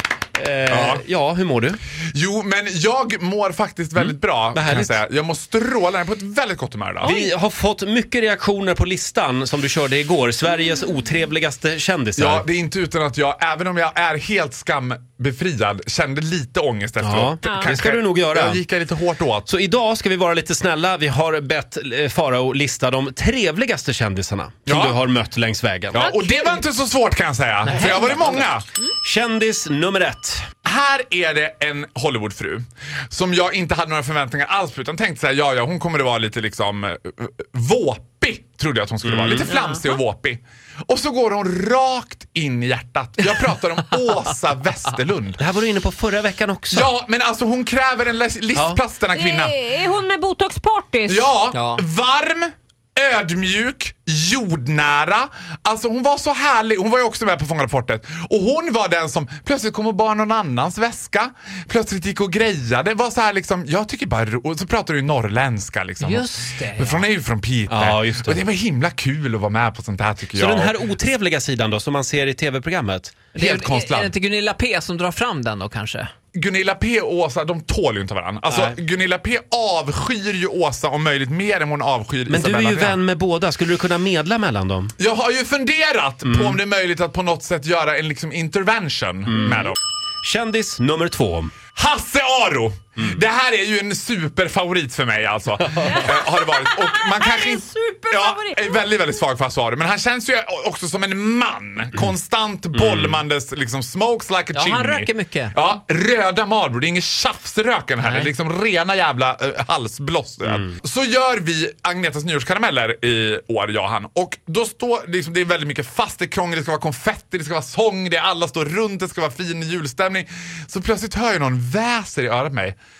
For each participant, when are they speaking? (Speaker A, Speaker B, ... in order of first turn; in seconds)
Speaker A: 0.4-1.8, 4.0-5.0, 7.0-12.5, 17.0-18.6, 19.5-26.1, 27.7-28.4, 29.0-30.5, 39.0-39.5, 45.4-46.9, 67.7-68.4, 70.3-73.3, 78.5-78.8, 82.3-84.9, 86.3-86.6, 89.3-91.5, 95.8-96.1, 102.8-103.2
Speaker B: 0.7-1.0, 2.1-7.2, 12.2-19.5, 24.7-25.0, 25.9-28.6, 30.6-45.4, 46.7-49.7, 51.1-70.7, 73.3-74.2, 76.3-83.0, 85.0-89.8, 91.8-122.8
Speaker C: 17.4-17.7, 26.0-26.6, 49.1-51.3, 95.8-98.9
Speaker D: 51.5-51.8, 66.0-67.0, 73.4-76.1, 104.5-105.5